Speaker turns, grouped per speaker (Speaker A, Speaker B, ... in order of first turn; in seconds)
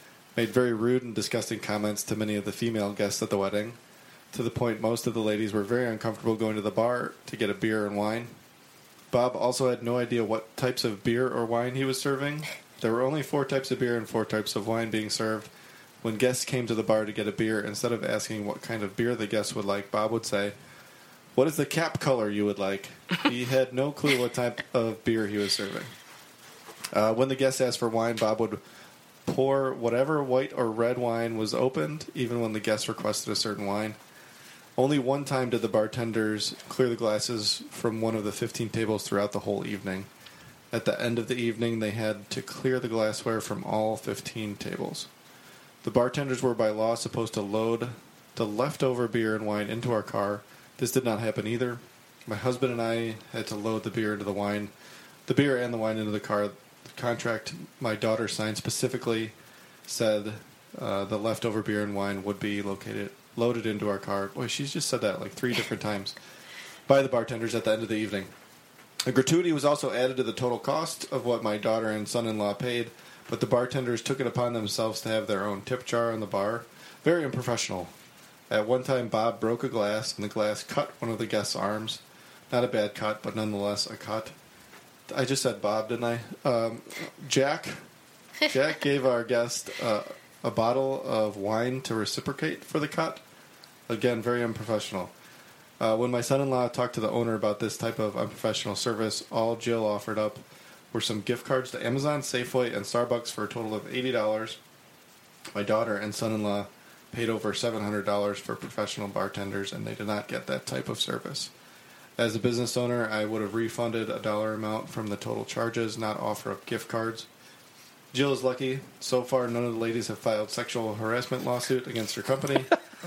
Speaker A: 0.4-3.8, 4.3-8.3, 9.1-15.5, 16.0-20.6, 21.4-25.9, 26.9-28.6, 29.3-34.0, 34.8-40.1, 40.7-45.1, 45.8-54.7, 55.3-59.3, 59.9-66.2, 66.9-68.3, 69.0-77.9, 78.5-84.3, 85.1-87.8, 88.5-93.2, 93.9-95.1, 95.8-104.6, 105.5-111.5, 112.2-117.3, 118.1-122.8